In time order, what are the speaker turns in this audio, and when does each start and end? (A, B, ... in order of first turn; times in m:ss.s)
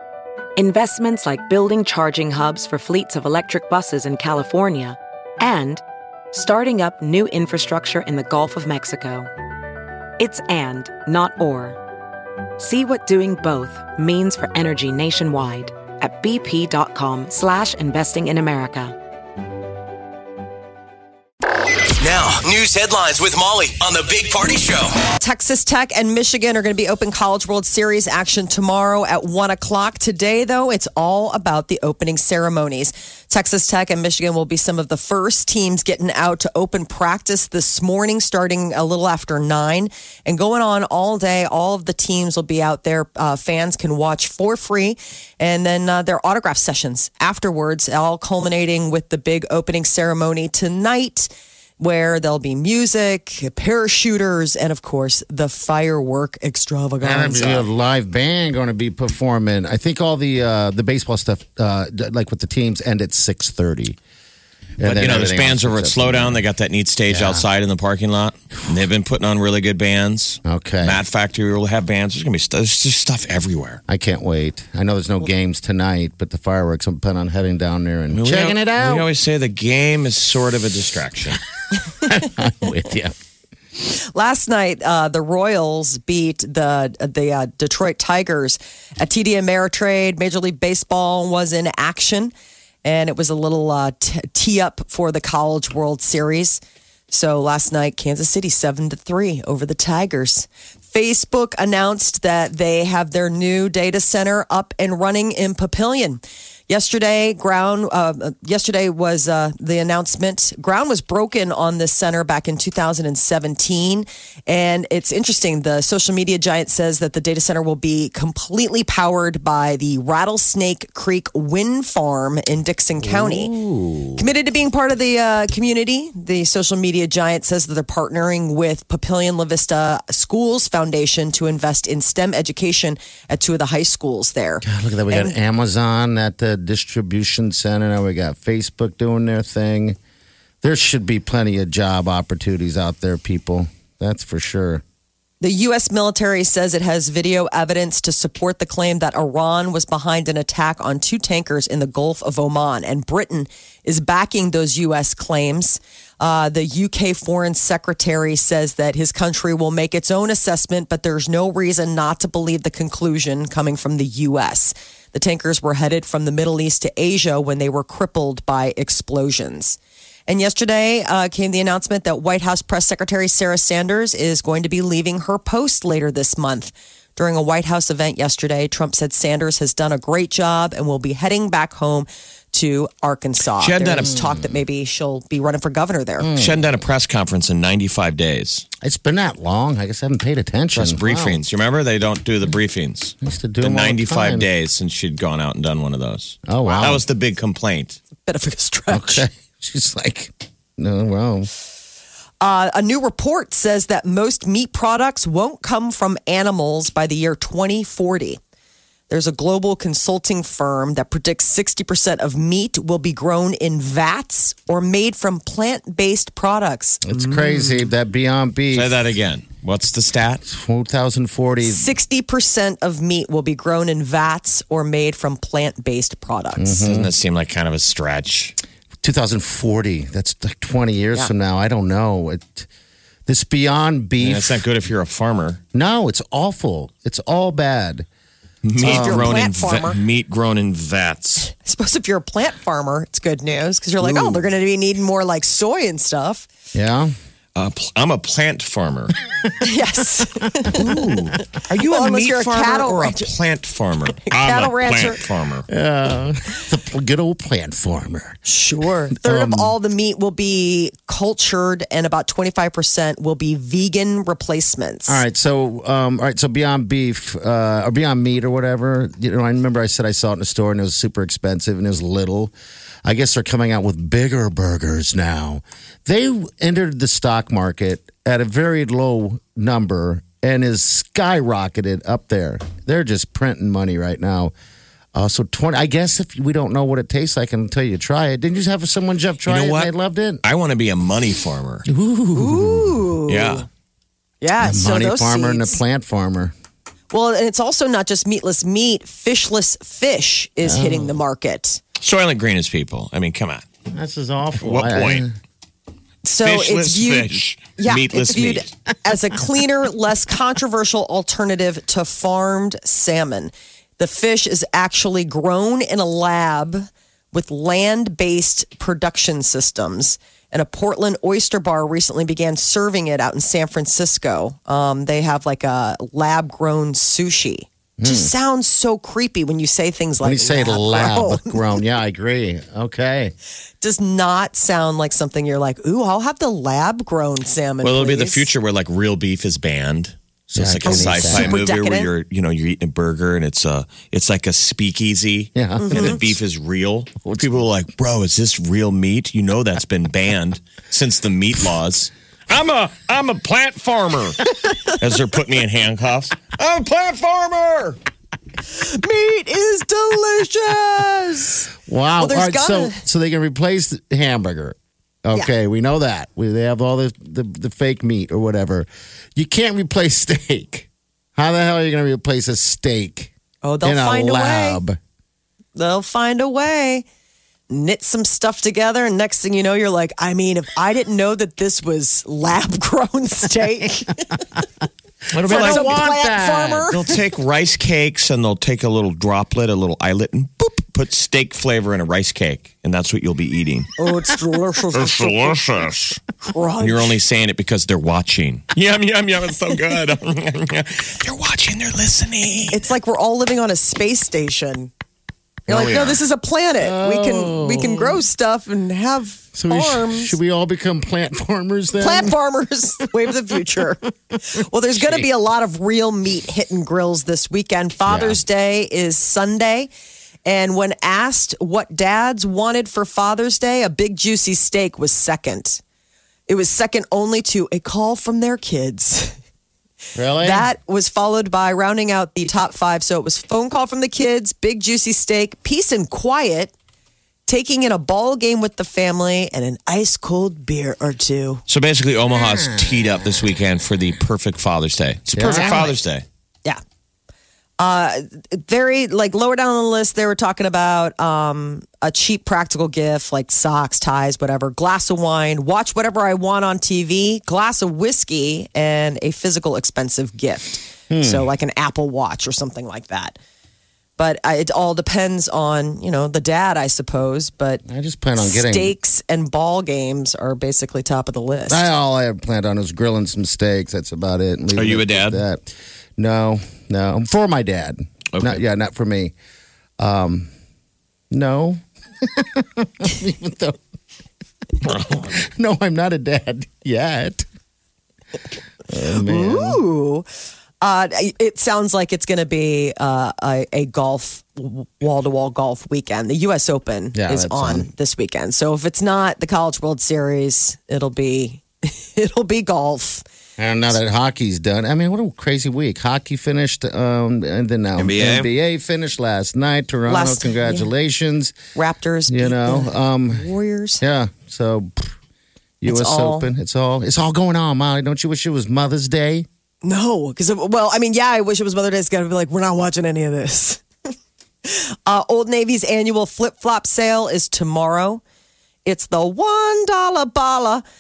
0:00.6-0:09.3 A
0:10.2-0:11.8 A
0:12.6-0:19.0 A
0:22.0-0:25.0 B
0:25.2-0:57.7 C
0:57.0-1:04.0 D
1:04.8-1:06.4 D
1:04.8-1:13.8 E
1:07.1-1:07.4 D
1:10.4-1:11.0 D
1:13.9-1:19.1 D
1:18.1-1:21.4 E
1:22.0-1:23.2 D
1:23.9-1:32.3 C
1:32.8-2:03.5 C
2:03.0-2:04.3 D
2:04.2-2:15.4 C
2:14.6-2:20.0 D
2:20.6-2:24.8 D
2:25.4-3:06.3 C
3:03.6-3:04.1 E
3:04.0-3:04.6 D
3:06.2-3:06.8 D
3:06.4-3:08.7 E
3:08.8-3:11.4 D
3:10.7-3:18.0 E
3:13.2-3:14.5 D
3:16.5-3:17.0 D
3:18.3-3:19.3 C
3:18.9-3:21.5 D
3:22.4-3:28.4 C
3:29.1-3:37.9 C
3:37.0-3:39.0 D
3:38.7-3:40.4 E
3:40.4-3:41.9 D
3:41.6-3:46.8 C
3:46.6-3:47.1 D
3:46.8-3:48.6 E
3:49.0-3:52.7 D
3:53.3-3:54.6 D
3:54.2-3:55.6 E
3:55.7-3:58.1 D
3:58.6-4:01.5 E
3:58.8-3:59.4 D
3:58.8-4:00.0 C
4:01.4-4:06.5 C
4:04.0-4:04.4 E
4:06.7-4:07.1 D
4:07.6-4:09.2 E
4:09.6-4:10.8 C
4:10.8-4:15.7 E
4:11.8-4:13.3 C
4:14.3-4:15.2 C
4:15.7-4:18.4 D
4:18.4-4:25.2 C
4:19.2-4:19.8 D
4:25.1-4:32.5 D
4:33.0-4:44.5 D
4:45.1-4:50.4 D
4:49.5-4:49.9 E
4:50.4-4:51.9 E
4:51.9-4:53.1 D
4:52.4-4:53.7 C
4:53.3-4:53.7 E
4:54.4-4:55.8 C
4:54.6-4:56.5 D
4:57.1-5:01.8 C
5:00.6-5:01.2 D
5:02.0-5:03.6 E
5:03.9-5:05.3 D
5:04.6-5:05.3 E
5:06.2-5:31.6 C
5:06.4-5:08.7 E
5:28.0-5:28.3 D
5:30.2-5:33.4 D
5:33.8-5:38.5 C
5:37.8-5:58.0 E
5:40.5-5:41.6 D
5:40.9-5:42.1 C
5:45.6-5:46.4 D
5:45.8-5:46.2 C
5:58.7-6:03.0 C
6:01.8-6:13.3 D
6:13.6-6:14.8 C
6:13.8-6:15.0 D
6:15.8-6:17.0 C
6:17.7-6:24.4 C
6:25.3-6:27.2 D
6:25.3-6:26.0 E
6:25.5-6:27.0 C
6:26.9-6:33.9 E
6:34.0-6:35.6 C
6:34.9-6:36.2 E
6:36.4-6:37.1 C
6:36.8-6:42.8 E
6:42.7-6:44.9 C
6:45.7-6:46.2 E
6:45.7-6:50.4 C
6:46.8-6:48.2 D
6:49.5-6:52.4 D
6:52.0-6:59.9 C
6:55.0-6:55.3 D
6:58.1-6:58.4 D
7:00.4-7:05.8 C
7:06.5-7:09.4 C
7:10.2-7:10.7 D
7:10.4-7:16.7 C
7:17.5-7:21.6 C
7:21.7-7:26.2 E
7:25.3-7:25.9 D
7:27.8-7:43.4 C
7:41.1-7:41.5 D
7:44.2-7:47.8 C
7:47.8-7:49.0 D
7:48.4-7:51.9 C
7:51.7-7:59.3 D
7:54.8-7:55.4 E
7:58.3-7:58.6 E
8:00.0-8:00.5 D
8:01.3-8:03.8 D
8:04.8-8:05.3 E
8:05.1-8:07.4 D
8:08.9-8:09.8 D
8:09.2-8:10.3 C
8:10.8-8:23.2 C
8:17.1-8:17.9 D
8:23.6-8:31.6 D
8:28.0-8:28.5 E
8:30.1-8:30.9 C
8:31.8-8:34.0 C
8:32.3-8:33.5 D
8:34.0-8:35.1 D
8:35.8-8:39.5 D
8:35.9-8:36.5 C
8:39.8-8:43.8 C
8:44.6-8:48.2 C
8:48.8-8:50.8 C